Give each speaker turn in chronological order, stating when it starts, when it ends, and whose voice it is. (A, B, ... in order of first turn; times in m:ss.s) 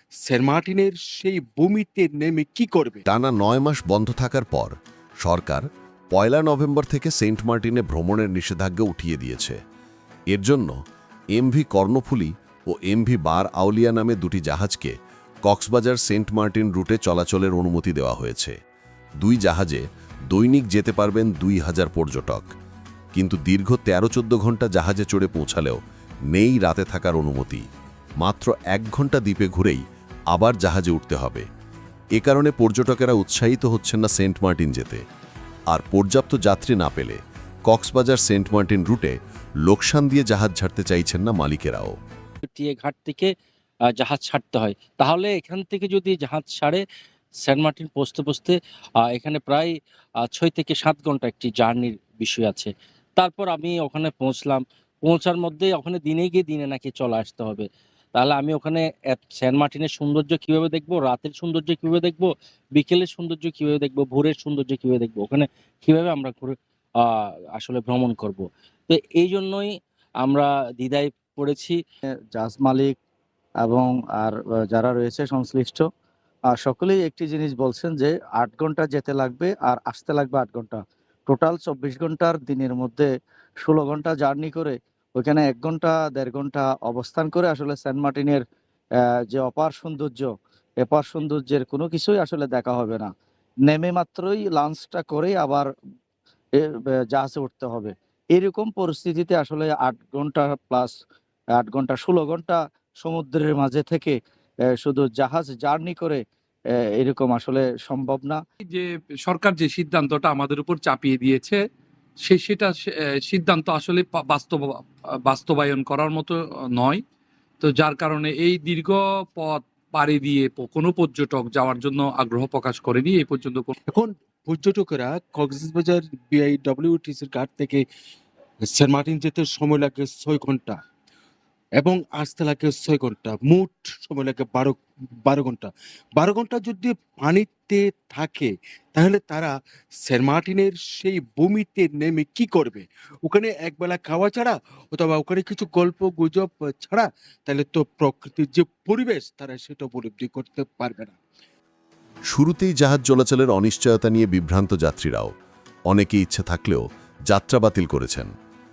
0:00.2-0:03.0 A
0:03.1-0:09.6 B
0:10.3-0:10.8 B
0:11.4-0:14.9 B
0:15.5-0:18.6 B
0:19.2-0:22.5 B
0:23.1-0:25.8 B
0:26.3-0:27.6 B
0:28.2-0:31.5 B
0:32.2-0:35.0 B
0:35.7-0:42.0 B
0:42.4-0:43.3 C
0:43.9-0:46.8 C
0:47.4-1:09.7 C
1:10.2-1:11.8 C
1:12.3-1:13.0 D
1:13.6-1:15.8 D
1:16.5-1:23.1 D
1:23.6-1:28.4 D
1:29.3-1:30.3 D
1:30.8-1:33.1 D
1:33.7-1:35.7 D
1:36.6-1:41.0 D
1:41.6-1:44.2 D
1:44.7-1:46.2 D
1:47.0-1:48.4 D
1:48.6-1:51.6 E
1:52.2-1:57.0 E
1:57.6-2:03.7 E
2:03.9-2:07.8 A
2:08.7-2:10.8 A
2:11.8-2:19.5 A
2:20.0-2:31.2 A
2:32.3-2:35.3 B
2:35.9-2:38.3 B